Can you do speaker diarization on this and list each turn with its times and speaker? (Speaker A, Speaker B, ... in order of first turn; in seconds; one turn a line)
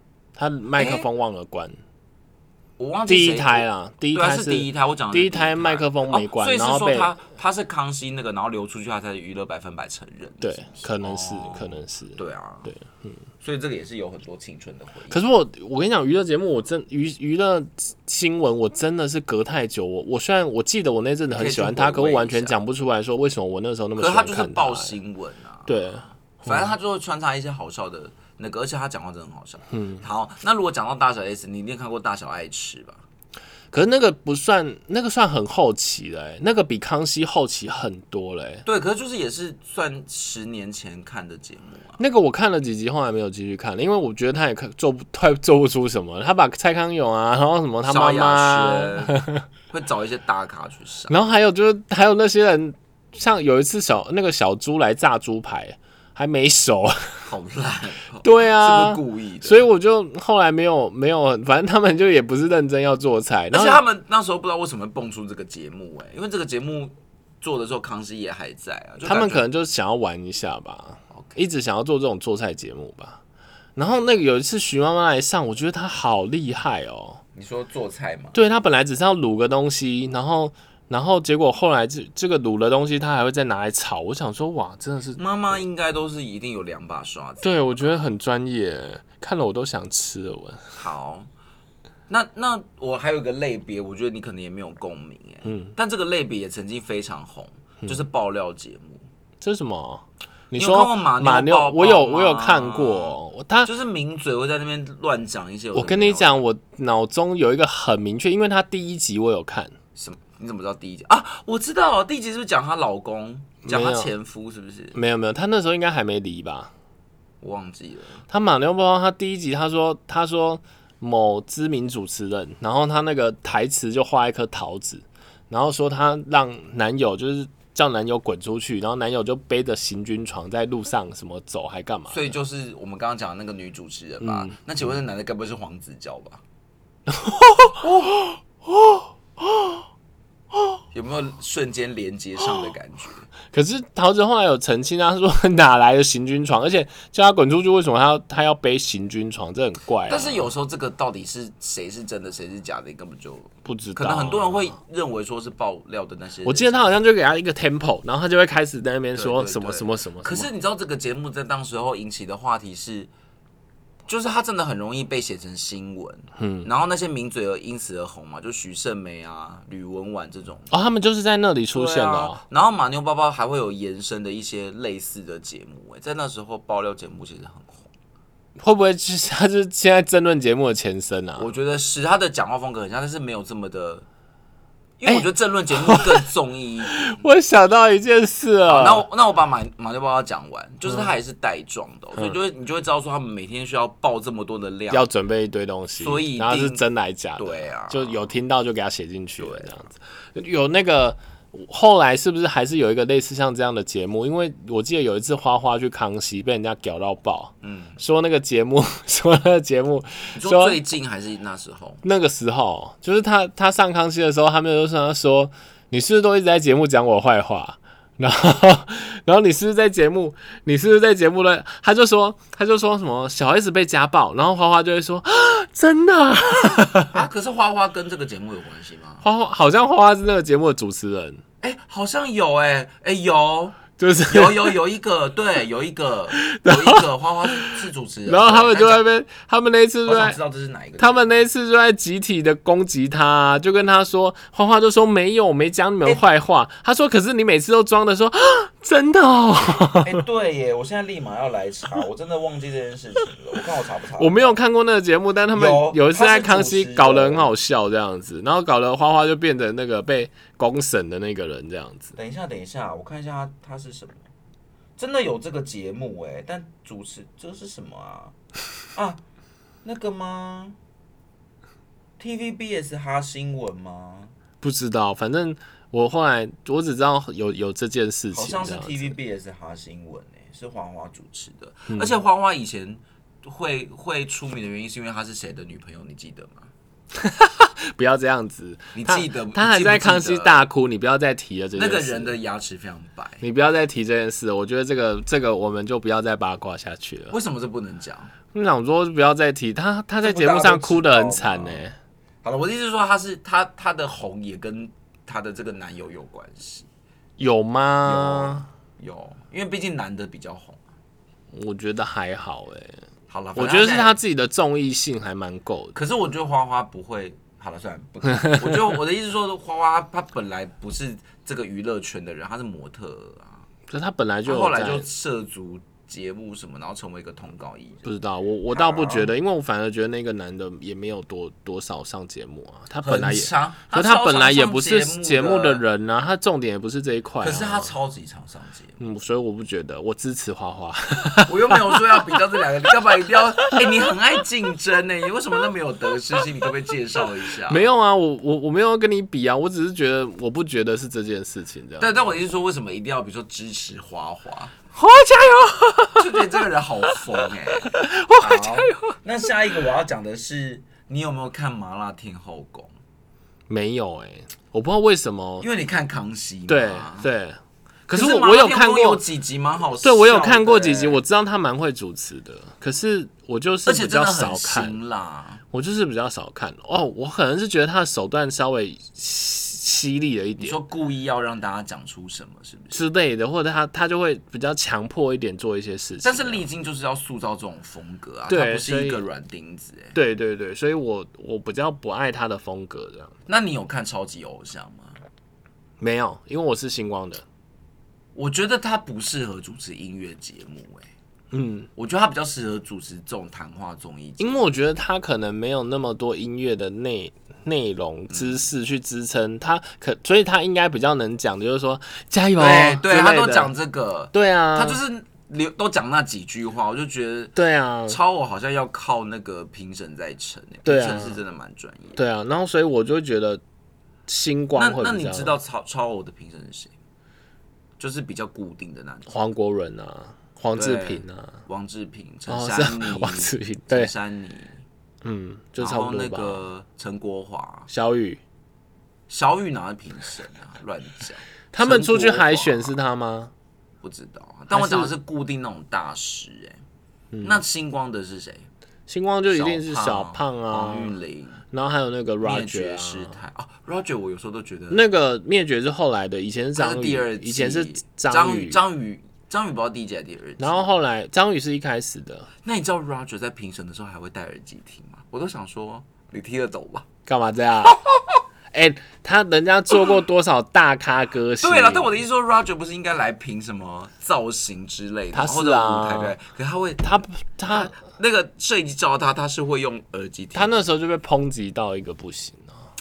Speaker A: 0.3-1.8
Speaker B: 0.8-1.1
Speaker B: 2.8-12.7
Speaker A: 3.1-7.1
Speaker A: 10.4-13.2
Speaker B: 13.4-15.2
Speaker A: 15.1-24.9
Speaker B: 21.3-22.6
Speaker B: 24.0-33.0
Speaker A: 25.7-26.7
Speaker A: 29.7-30.0
Speaker A: 33.7-38.6
Speaker B: 38.6-42.0
Speaker A: 42.0-49.4
Speaker B: 47.8-51.1
Speaker A: 51.1-57.3
Speaker B: 57.3-59.6
Speaker A: 58.2-63.8
Speaker B: 63.5-69.5
Speaker A: 69.0-73.2
Speaker A: 73.8-77.2
Speaker B: 77.3-78.4
Speaker A: 78.3-85.2
Speaker B: 85.2-87.8
Speaker A: 87.4-90.8
Speaker B: 90.8-91.3
Speaker B: 92.1-99.0
Speaker A: 95.4-95.7
Speaker A: 99.4-103.7
Speaker B: 100.5-106.4
Speaker A: 105.7-109.7
Speaker B: 109.9-115.0
Speaker A: 113.6-114.1
Speaker A: 114.9-116.7
Speaker B: 117.4-118.2
Speaker A: 118.3-132.3
Speaker B: 132.1-136.4
Speaker A: 134.2-134.6
Speaker A: 137.1-139.8
Speaker B: 140.9-143.3
Speaker A: 143.5-150.5
Speaker B: 150.1-156.8
Speaker A: 153.6-154.8
Speaker A: 156.4-160.5
Speaker B: 159.1-163.1
Speaker B: 164.1-170.7
Speaker A: 166.4-166.7
Speaker A: 170.7-172.4
Speaker B: 171.7-177.9
Speaker A: 178.6-181.5
Speaker B: 181.4-184.0
Speaker B: 185.0-187.2
Speaker A: 185.1-186.2
Speaker A: 186.9-189.1
Speaker B: 188.7-195.1
Speaker A: 194.9-210.8
Speaker B: 196.0-196.8
Speaker B: 197.4-198.3
Speaker B: 199.4-199.7
Speaker B: 207.6-208.0
Speaker B: 210.3-212.0
Speaker A: 212.0-227.2
Speaker B: 226.8-229.2
Speaker A: 229.2-231.4
Speaker B: 231.6-239.0
Speaker A: 234.0-234.8
Speaker A: 236.3-240.4
Speaker B: 240.1-241.3
Speaker A: 241.0-250.2
Speaker B: 250.0-254.5
Speaker A: 254.2-262.1
Speaker B: 255.5-257.5
Speaker B: 262.1-264.3
Speaker B: 265.0-268.4
Speaker B: 268.9-269.2
Speaker B: 269.8-270.8
Speaker B: 272.2-274.3
Speaker A: 274.6-279.1
Speaker B: 278.3-286.7
Speaker A: 281.9-282.2
Speaker A: 287.1-292.3
Speaker B: 288.9-290.6
Speaker B: 291.8-293.4
Speaker A: 293.4-297.3
Speaker B: 297.3-298.3
Speaker A: 298.5-301.9
Speaker B: 300.2-301.8
Speaker B: 302.4-306.9
Speaker A: 307.4-308.6
Speaker B: 308.0-310.8
Speaker A: 311.5-313.0
Speaker B: 313.3-314.2
Speaker A: 313.5-315.9
Speaker B: 315.9-323.6
Speaker A: 323.9-325.1
Speaker B: 324.4-328.0
Speaker A: 328.0-337.9
Speaker B: 328.7-329.3
Speaker B: 333.0-335.8
Speaker B: 337.4-339.0
Speaker A: 339.0-342.4
Speaker B: 341.4-347.9
Speaker A: 347.7-352.3
Speaker B: 352.0-354.7
Speaker A: 354.9-357.2
Speaker B: 356.1-362.9
Speaker A: 357.8-359.2
Speaker A: 363.7-365.7
Speaker B: 365.6-367.3
Speaker A: 366.7-369.2
Speaker B: 368.1-371.2
Speaker A: 370.0-375.0
Speaker B: 373.9-375.6
Speaker A: 375.7-380.8
Speaker B: 380.6-383.0
Speaker A: 382.9-386.6
Speaker B: 386.2-390.1
Speaker A: 388.5-389.2
Speaker A: 390.1-393.3
Speaker B: 393.5-395.2
Speaker A: 396.0-397.4
Speaker B: 398.3-401.1
Speaker A: 401.5-401.9
Speaker B: 401.9-404.6
Speaker A: 404.4-413.7
Speaker B: 408.3-408.6
Speaker B: 412.6-417.6
Speaker A: 414.3-415.0
Speaker A: 417.6-418.2
Speaker B: 418.1-422.2
Speaker A: 420.8-421.4
Speaker A: 422.1-423.6
Speaker A: 424.3-425.6
Speaker B: 424.7-426.9
Speaker B: 428.0-429.3
Speaker A: 429.3-431.6
Speaker B: 430.7-434.8
Speaker A: 432.5-434.1
Speaker A: 435.2-436.6
Speaker B: 435.8-437.9
Speaker A: 437.9-438.4
Speaker B: 439.3-442.9
Speaker A: 441.7-443.5
Speaker B: 444.0-446.8
Speaker A: 444.7-445.1
Speaker A: 447.3-447.6
Speaker B: 447.4-448.7
Speaker A: 449.1-451.1
Speaker B: 449.5-451.6
Speaker A: 451.7-453.4
Speaker B: 452.4-455.1
Speaker A: 454.9-458.8
Speaker B: 456.8-460.9
Speaker A: 460.6-462.5
Speaker B: 462.6-467.1
Speaker A: 467.3-468.0
Speaker B: 467.8-468.4
Speaker A: 468.7-472.2
Speaker B: 471.6-480.8
Speaker A: 475.3-476.4
Speaker A: 477.0-477.9
Speaker A: 480.5-482.7